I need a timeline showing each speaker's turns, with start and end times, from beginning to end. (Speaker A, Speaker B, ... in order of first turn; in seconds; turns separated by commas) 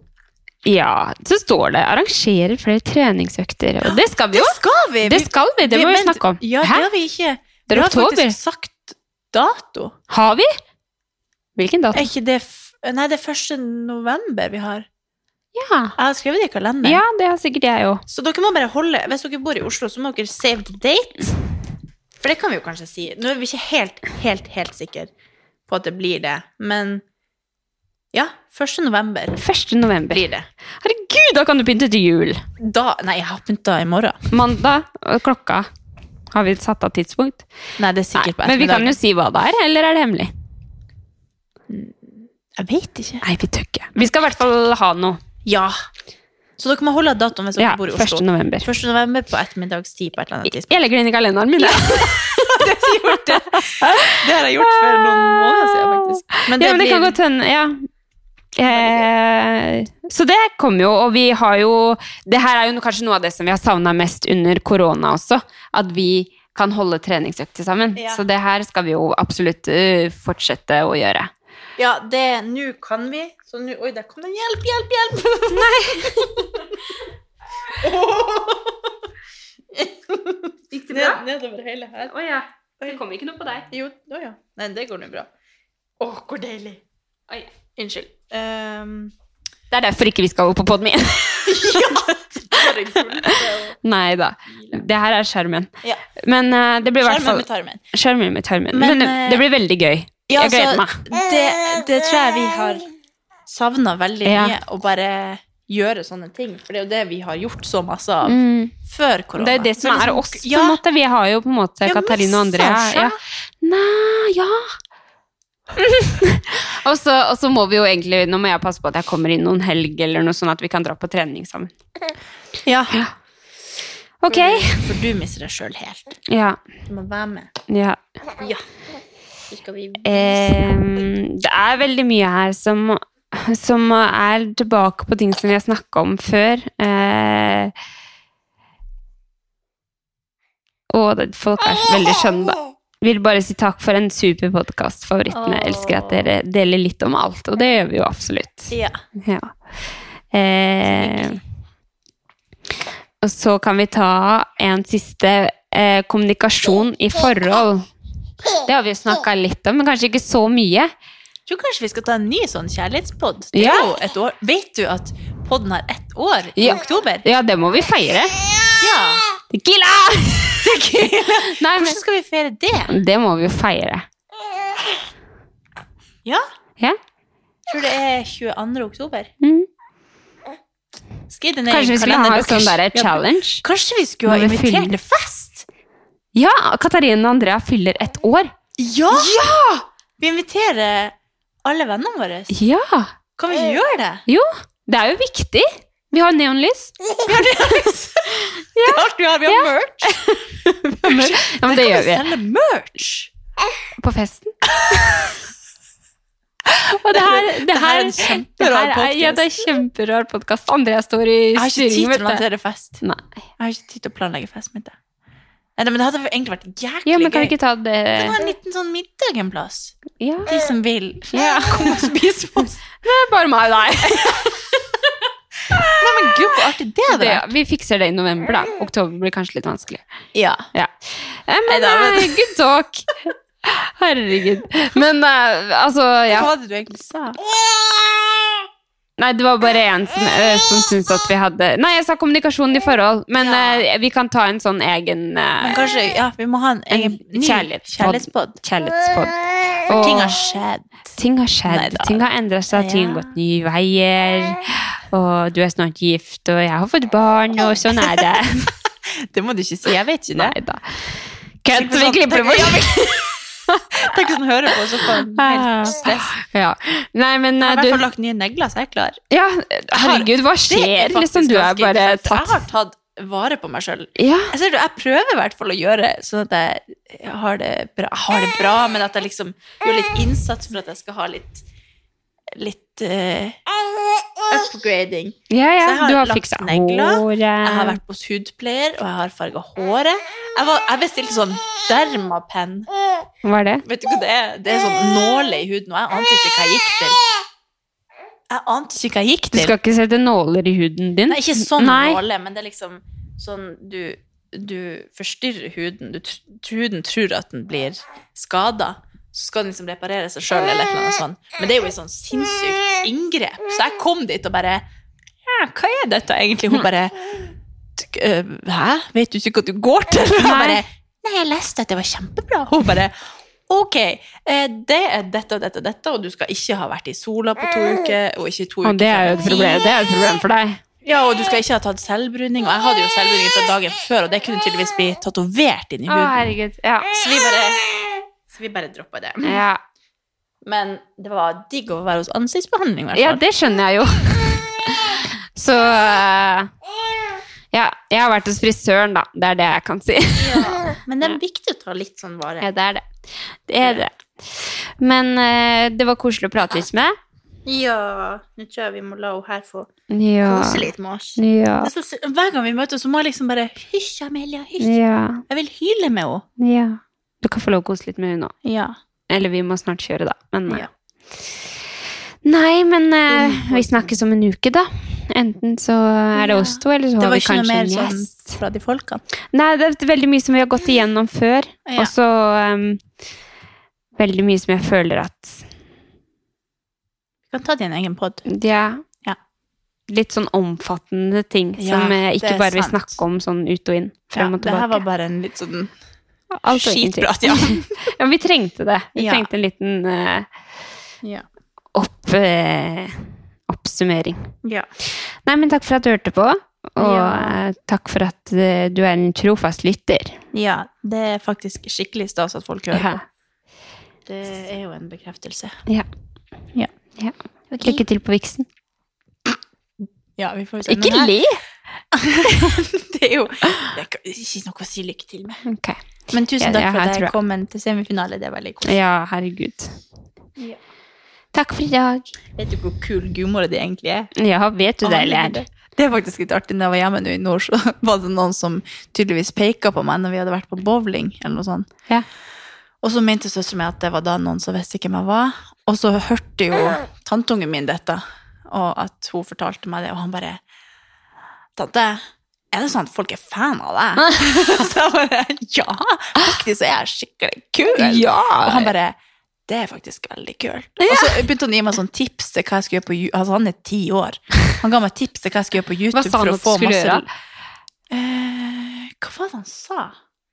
Speaker A: 0.7-6.9, Speaker B: 3.8-9.9, Speaker A: 7.7-8.4, Speaker A: 10.1-10.5, Speaker A: 11.6-12.1, Speaker B: 11.9-14.9, Speaker A: 15.6-15.9, Speaker B: 16.0-17.0, Speaker A: 16.8-18.0, Speaker B: 18.1-21.3, Speaker B: 22.2-25.1, Speaker B: 25.7-27.0, Speaker B: 28.1-29.4, Speaker A: 29.4-30.3, Speaker B: 30.1-30.5, Speaker A: 30.8-32.4, Speaker B: 32.6-34.2, Speaker A: 34.3-35.7, Speaker A: 36.3-37.5, Speaker B: 37.8-39.0, Speaker A: 38.1-40.3, Speaker B: 41.7-43.2, Speaker A: 43.2-45.2, Speaker B: 45.5-45.8, Speaker B: 46.6-50.8, Speaker A: 47.6-48.7, Speaker A: 50.5-57.8, Speaker B: 51.6-57.2, Speaker A: 58.6-71.3, Speaker B: 58.7-59.1, Speaker B: 68.0-68.2, Speaker B: 71.8-76.8, Speaker A: 75.5-76.3, Speaker B: 77.8-79.0, Speaker B: 79.7-82.1, Speaker A: 80.7-81.2, Speaker A: 82.1-83.7, Speaker B: 83.7-85.3, Speaker B: 86.0-86.8, Speaker B: 87.8-89.1, Speaker A: 89.7-92.0, Speaker B: 91.4-93.8, Speaker A: 93.0-93.3, Speaker A: 93.8-101.0, Speaker B: 94.5-94.8, Speaker B: 97.0-97.8, Speaker B: 98.7-99.5, Speaker B: 100.3-102.9, Speaker B: 103.5-110.8, Speaker A: 104.2-104.6, Speaker A: 108.2-108.7, Speaker A: 109.4-114.8, Speaker B: 111.8-113.2, Speaker A: 115.8-121.7, Speaker B: 122.7-123.1, Speaker A: 124.2-124.9, Speaker B: 124.3-126.2, Speaker A: 126.3-126.6, Speaker B: 126.9-127.5, Speaker A: 127.7-128.0, Speaker B: 128.4-128.6, Speaker B: 129.5-131.1, Speaker A: 130.1-137.7, Speaker A: 140.9-149.5, Speaker B: 145.3-146.3, Speaker B: 148.7-149.0, Speaker A: 150.3-151.4, Speaker B: 150.8-151.4, Speaker A: 153.2-157.9, Speaker A: 158.6-160.9, Speaker B: 161.5-167.2, Speaker A: 163.5-163.9, Speaker A: 166.6-168.4, Speaker B: 168.8-169.2, Speaker A: 169.5-170.8, Speaker B: 170.6-172.9, Speaker A: 171.4-172.0, Speaker A: 172.9-174.1, Speaker B: 177.7-179.3, Speaker A: 179.4-179.7, Speaker B: 181.3-185.7, Speaker A: 181.7-183.6, Speaker A: 184.3-184.9, Speaker A: 186.3-188.5, Speaker B: 188.8-189.4, Speaker A: 189.1-189.8, Speaker B: 190.2-192.6, Speaker A: 192.5-193.1, Speaker B: 193.4-194.2, Speaker A: 194.3-196.9, Speaker B: 197.2-200.4, Speaker A: 198.8-202.3, Speaker B: 201.0-203.3, Speaker A: 204.0-205.3, Speaker A: 206.7-212.4, Speaker B: 207.1-209.5, Speaker B: 211.6-213.0, Speaker B: 213.6-214.9, Speaker B: 215.8-217.6, Speaker A: 217.1-218.3, Speaker B: 218.1-222.8, Speaker A: 220.2-220.5, Speaker A: 221.3-222.0, Speaker A: 223.0-224.6, Speaker B: 224.0-224.6, Speaker B: 226.0-227.4, Speaker A: 227.1-230.0, Speaker B: 230.3-230.7, Speaker A: 230.7-236.5, Speaker B: 231.7-232.5, Speaker B: 236.3-237.4, Speaker A: 239.2-245.8, Speaker B: 243.3-243.9, Speaker B: 245.6-248.6, Speaker A: 246.9-250.4, Speaker B: 249.9-251.2, Speaker A: 251.2-258.7, Speaker B: 251.7-253.3, Speaker B: 257.9-258.4, Speaker B: 259.1-260.6, Speaker A: 260.4-264.1, Speaker B: 261.7-263.4, Speaker B: 263.9-266.4, Speaker A: 265.0-268.0, Speaker B: 267.6-269.2, Speaker A: 269.3-272.6, Speaker B: 269.9-281.6, Speaker A: 274.2-274.5, Speaker B: 282.6-283.6, Speaker B: 284.5-292.9, Speaker A: 285.5-288.0, Speaker A: 293.4-293.9, Speaker B: 293.9-297.2, Speaker B: 298.5-299.8, Speaker A: 299.5-302.2, Speaker B: 301.3-314.9, Speaker B: 315.4-323.1, Speaker A: 320.4-320.8, Speaker B: 323.7-329.9, Speaker A: 328.8-330.8, Speaker B: 331.0-336.5, Speaker A: 336.1-337.1, Speaker B: 337.1-339.6, Speaker A: 339.4-339.8, Speaker B: 340.6-343.4, Speaker A: 343.1-346.7, Speaker A: 347.7-351.3, Speaker B: 350.4-352.7, Speaker A: 352.6-353.1, Speaker A: 353.7-357.1, Speaker B: 353.8-354.1, Speaker B: 357.7-359.9, Speaker A: 360.1-361.9, Speaker B: 360.4-366.4, Speaker A: 364.8-365.4, Speaker A: 366.6-368.5, Speaker B: 368.6-369.0, Speaker A: 369.3-370.9, Speaker A: 372.4-378.6, Speaker B: 373.3-374.1, Speaker B: 376.3-379.2, Speaker A: 379.5-383.0, Speaker B: 381.9-382.1, Speaker A: 384.2-385.6, Speaker B: 387.5-388.4, Speaker A: 388.5-389.0, Speaker A: 390.1-395.0, Speaker B: 391.8-393.2, Speaker B: 394.3-395.9, Speaker A: 396.6-400.5, Speaker B: 396.7-398.1, Speaker B: 399.2-399.5, Speaker A: 401.9-404.4, Speaker A: 405.5-410.4, Speaker B: 407.0-407.6, Speaker B: 410.5-413.2, Speaker A: 412.9-413.2, Speaker B: 414.3-415.8, Speaker A: 417.2-418.7, Speaker B: 417.7-418.0, Speaker B: 420.4-421.4, Speaker A: 420.9-421.6, Speaker B: 422.1-425.6, Speaker A: 425.7-426.0, Speaker B: 426.3-429.0, Speaker A: 426.6-427.3, Speaker A: 428.9-429.9, Speaker A: 431.5-432.3, Speaker B: 432.6-434.3, Speaker A: 434.4-435.6, Speaker B: 435.0-441.9, Speaker B: 443.0-450.6, Speaker B: 451.8-467.2, Speaker A: 454.2-454.5, Speaker A: 457.9-458.9, Speaker A: 461.0-461.4, Speaker A: 466.1-467.3, Speaker B: 468.1-470.2